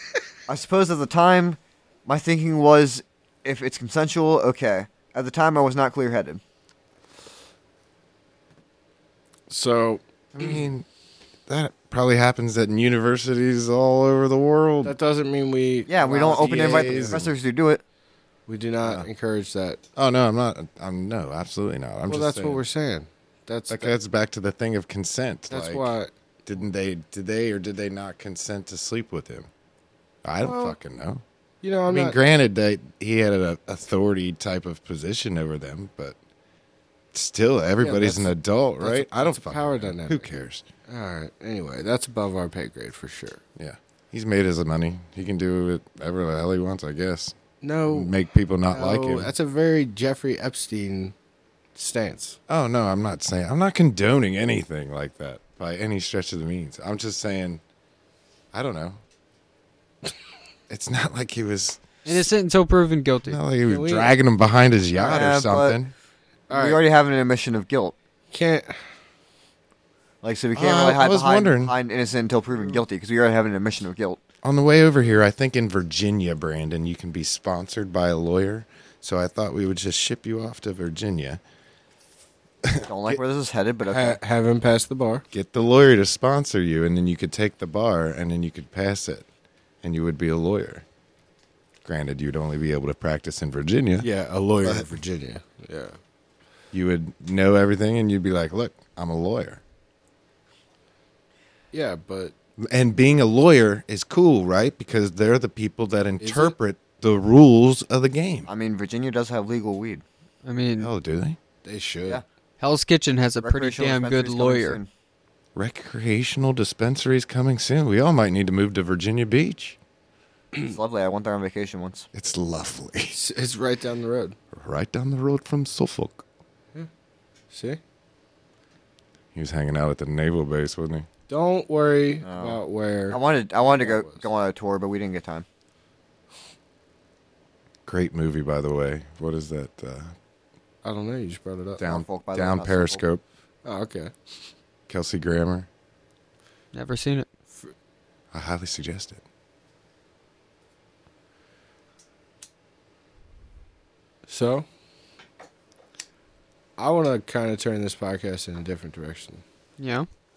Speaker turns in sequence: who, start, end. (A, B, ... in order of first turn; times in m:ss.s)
0:00.5-0:06.4 A
0:09.5-0:10.7 B
0:10.3-0:10.9 C
0:11.5-0:14.9 C
0:14.8-0:17.3 B
0:15.9-0:17.8 A
0:16.3-0:17.3 C
0:18.5-0:19.8 B
0:18.8-0:19.1 C
0:20.0-0:22.6 C
0:22.1-0:23.9 B
0:23.7-0:25.9 C
0:25.5-0:26.1 B
0:26.4-0:29.5 C
0:30.2-0:31.2 C
0:30.4-0:30.8 B
0:31.6-0:32.2 B
0:31.9-0:36.2 C
0:37.1-0:40.6 C
0:37.8-0:40.3 B
0:40.9-0:43.4 B
0:43.6-0:47.4 C
0:47.6-0:48.1 B
0:47.9-0:49.3 C
0:48.7-0:51.1 B
0:51.7-0:52.4 B
0:52.5-0:57.6 C
0:58.5-0:59.0 C
1:00.7-1:02.3 C
1:02.0-1:03.4 D
1:03.3-1:05.9 C
1:03.6-1:04.1 B
1:04.9-1:05.8 A
1:06.5-1:06.8 B
1:06.5-1:07.9 A
1:08.3-1:08.9 B
1:10.2-1:14.2 A
1:10.5-1:11.7 C
1:14.4-1:21.4 C
1:22.6-1:23.2 C
1:22.8-1:24.2 A
1:23.8-1:25.2 B
1:25.3-1:29.3 C
1:29.8-1:30.8 C
1:31.8-1:34.1 C
1:34.0-1:36.0 B
1:34.6-1:34.9 C
1:36.7-1:39.6 C
1:41.7-1:42.3 B
1:42.6-1:48.5 C
1:46.2-1:46.6 B
1:48.4-1:50.0 A
1:50.4-1:50.9 D
1:50.8-1:51.4 C
1:51.6-1:52.2 B
1:52.6-1:54.8 D
1:53.4-1:54.9 A
1:55.5-1:59.8 C
2:00.6-2:02.1 A
2:02.1-2:03.2 C
2:03.1-2:04.4 B
2:04.5-2:06.2 C
2:07.5-2:07.8 B
2:09.3-2:11.1 C
2:11.3-2:14.2 B
2:12.2-2:15.4 A
2:17.8-2:20.1 C
2:20.8-2:21.8 B
2:21.8-2:23.2 C
2:21.8-2:23.0 A
2:23.6-2:24.1 B
2:24.9-2:25.7 C
2:26.7-2:27.3 D
2:28.3-2:29.2 C
2:34.2-2:34.6 B
2:36.8-2:39.4 B
2:39.8-2:40.1 D